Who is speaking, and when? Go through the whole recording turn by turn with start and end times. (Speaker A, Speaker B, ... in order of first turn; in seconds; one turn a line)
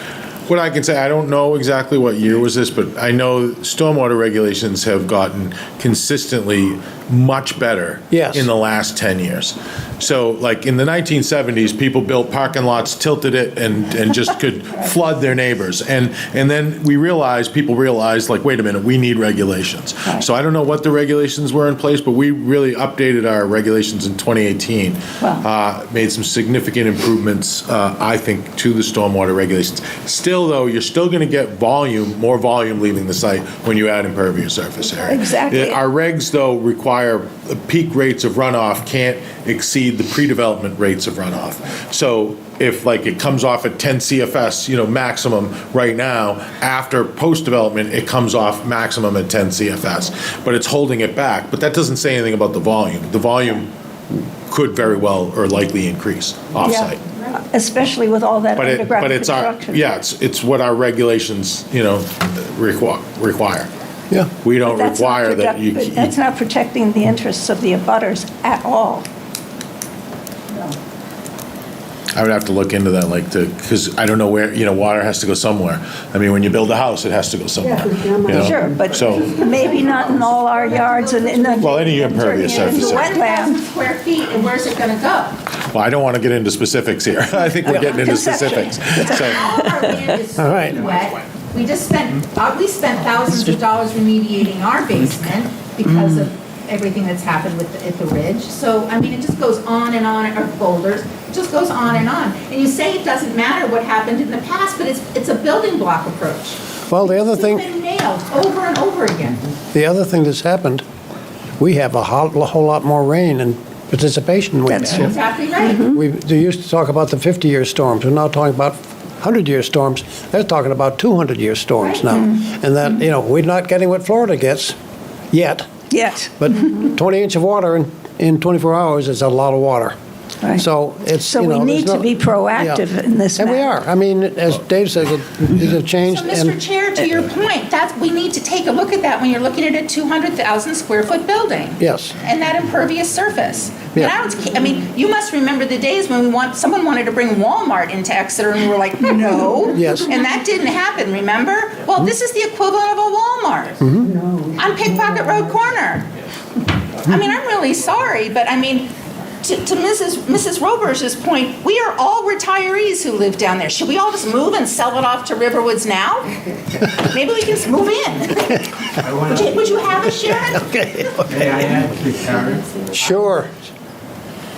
Speaker A: 0.5-53.7
Speaker B: 8.1-8.5
Speaker C: 35.1-35.8
Speaker A: 54.5-57.0
Speaker C: 57.5-59.9
Speaker A: 58.6-63.7
Speaker A: 64.4-66.1
Speaker C: 64.6-69.0
Speaker A: 72.1-79.3
Speaker C: 78.3-83.6
Speaker D: 80.5-81.8
Speaker A: 81.6-83.1
Speaker D: 82.4-85.4
Speaker A: 85.6-89.4
Speaker C: 87.6-89.2
Speaker D: 89.0-109.4
Speaker B: 90.4-90.8
Speaker B: 106.9-107.6
Speaker B: 109.7-110.8
Speaker B: 111.6-115.2
Speaker C: 114.7-115.0
Speaker D: 114.9-115.8
Speaker B: 115.8-124.8
Speaker B: 125.3-125.7
Speaker C: 125.9-126.3
Speaker B: 126.4-129.9
Speaker B: 130.5-132.8
Speaker C: 131.3-133.7
Speaker B: 133.4-136.5
Speaker D: 136.0-153.8
Speaker B: 141.8-142.2
Speaker B: 149.7-150.1
Speaker B: 153.8-154.1
Speaker D: 154.6-156.1
Speaker D: 157.0-170.8
Speaker E: 169.0-169.5
Speaker B: 170.6-171.2
Speaker E: 171.2-173.1
Speaker B: 173.0-173.5